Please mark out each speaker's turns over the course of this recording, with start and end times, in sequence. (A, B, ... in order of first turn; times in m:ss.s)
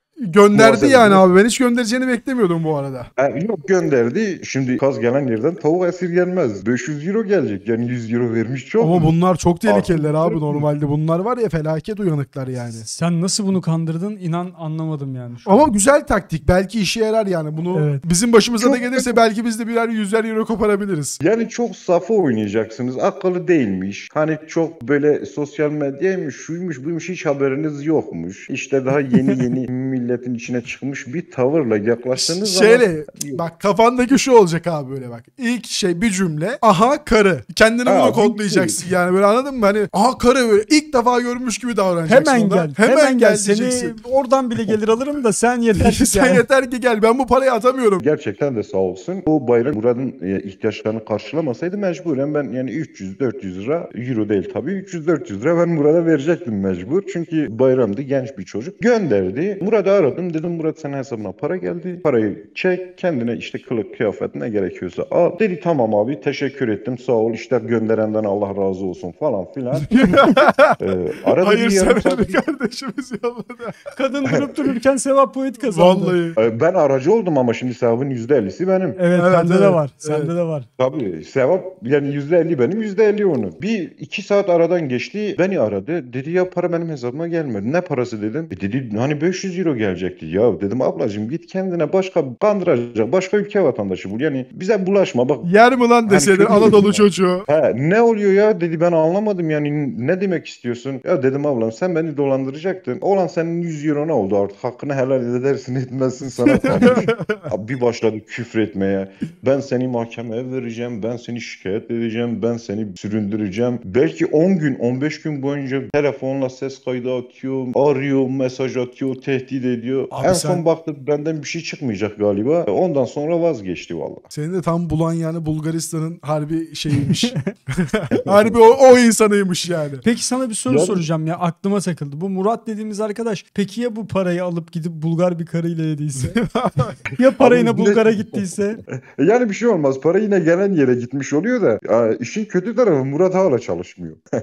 0:00.2-0:03.1 A
0:00.5-0:01.3 B
0:03.2-0:09.1 B
0:08.8-0:12.8 A
0:09.6-0:10.6 B
0:12.7-0:15.7 C
0:15.4-0:21.2 A
0:17.7-0:18.0 C
0:18.6-0:19.2 B
0:21.2-0:33.4 B
0:32.2-0:44.0 A
0:37.8-0:38.8 B
0:42.0-0:46.4 C
0:45.7-0:48.0 A
0:48.0-1:12.4 B
1:09.9-1:10.8 A
1:11.4-1:13.9 A
1:13.9-1:16.2 C
1:14.3-1:14.5 B
1:15.7-1:16.4 A
1:16.4-1:19.0 B
1:19.0-1:20.7 C
1:19.1-1:20.3 A
1:20.8-1:35.5 B
1:35.4-1:37.4 A
1:36.0-2:04.2 B
1:46.5-1:47.5 A
2:00.1-2:00.6 A
2:04.3-2:07.4 A
2:07.1-2:07.5 C
2:07.9-2:10.0 A
2:08.1-2:08.6 B
2:10.0-2:16.4 C
2:10.7-2:11.0 B
2:16.2-2:17.0 A
2:17.1-2:18.8 C
2:17.4-2:24.2 B